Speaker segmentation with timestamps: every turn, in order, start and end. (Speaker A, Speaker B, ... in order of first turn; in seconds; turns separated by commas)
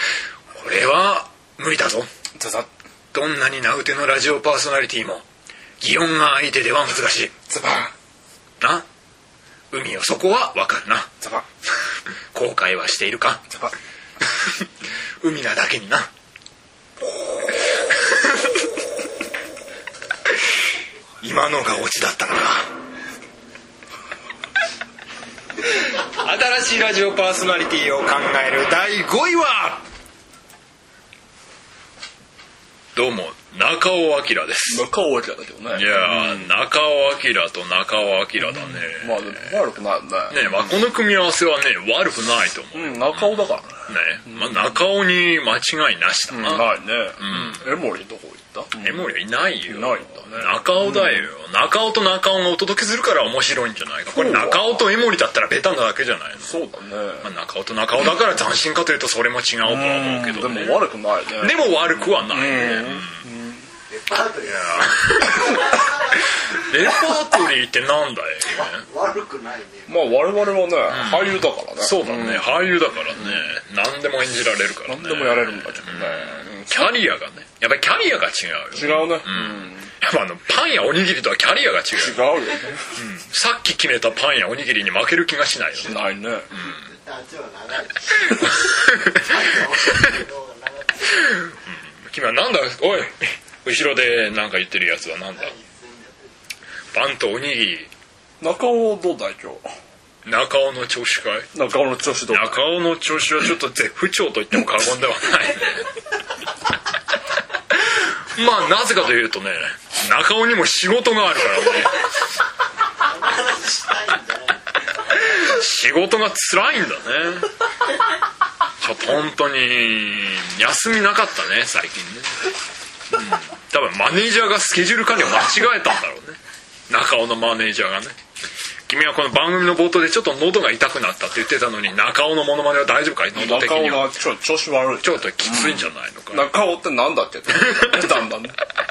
Speaker A: 0.6-2.1, Speaker B: 2.4-2.7, Speaker A: 3.1-5.2, Speaker A: 5.8-7.3, Speaker B: 7.5-7.9, Speaker A: 8.6-8.9, Speaker A: 9.7-11.1, Speaker B: 11.2-11.5, Speaker A: 12.3-13.4, Speaker A: 14.2-16.1, Speaker A: 17.6-18.7, Speaker A: 21.2-22.7, Speaker A: 25.6-29.9, Speaker A: 33.0-34.8, Speaker B: 34.7-36.5, Speaker A: 35.7-39.5, Speaker B: 38.4-40.7, Speaker A: 40.3-47.6, Speaker B: 42.7-44.5, Speaker B: 46.3-49.0, Speaker A: 48.8-56.6, Speaker B: 49.7-51.3, Speaker B: 54.1-54.9, Speaker B: 56.4-57.3, Speaker A: 57.2-60.9, Speaker B: 59.6-63.7, Speaker A: 61.4-63.2, Speaker C: 63.9-66.9, Speaker A: 64.5-68.8, Speaker C: 68.5-70.2, Speaker B: 69.9-72.5, Speaker A: 70.9-82.2, Speaker B: 74.8-77.0, Speaker B: 78.7-79.9, Speaker B: 82.0-83.0, Speaker A: 83.0-86.0, Speaker B: 85.8-86.5, Speaker A: 86.5-86.9, Speaker C: 86.5-91.4, Speaker A: 88.2-89.3, Speaker A: 91.1-95.5, Speaker C: 95.3-96.3, Speaker A: 96.9-97.9, Speaker B: 98.4-99.7, Speaker A: 100.2-101.5, Speaker B: 101.5-102.6, Speaker A: 102.3-105.9, Speaker A: 107.7-112.1, Speaker C: 113.0-115.1, Speaker A: 115.1-117.5, Speaker A: 118.8-122.5, Speaker A: 123.1-128.2, Speaker A: 128.9-134.1, Speaker B: 133.3-138.6, Speaker A: 135.0-136.5, Speaker A: 137.5-138.2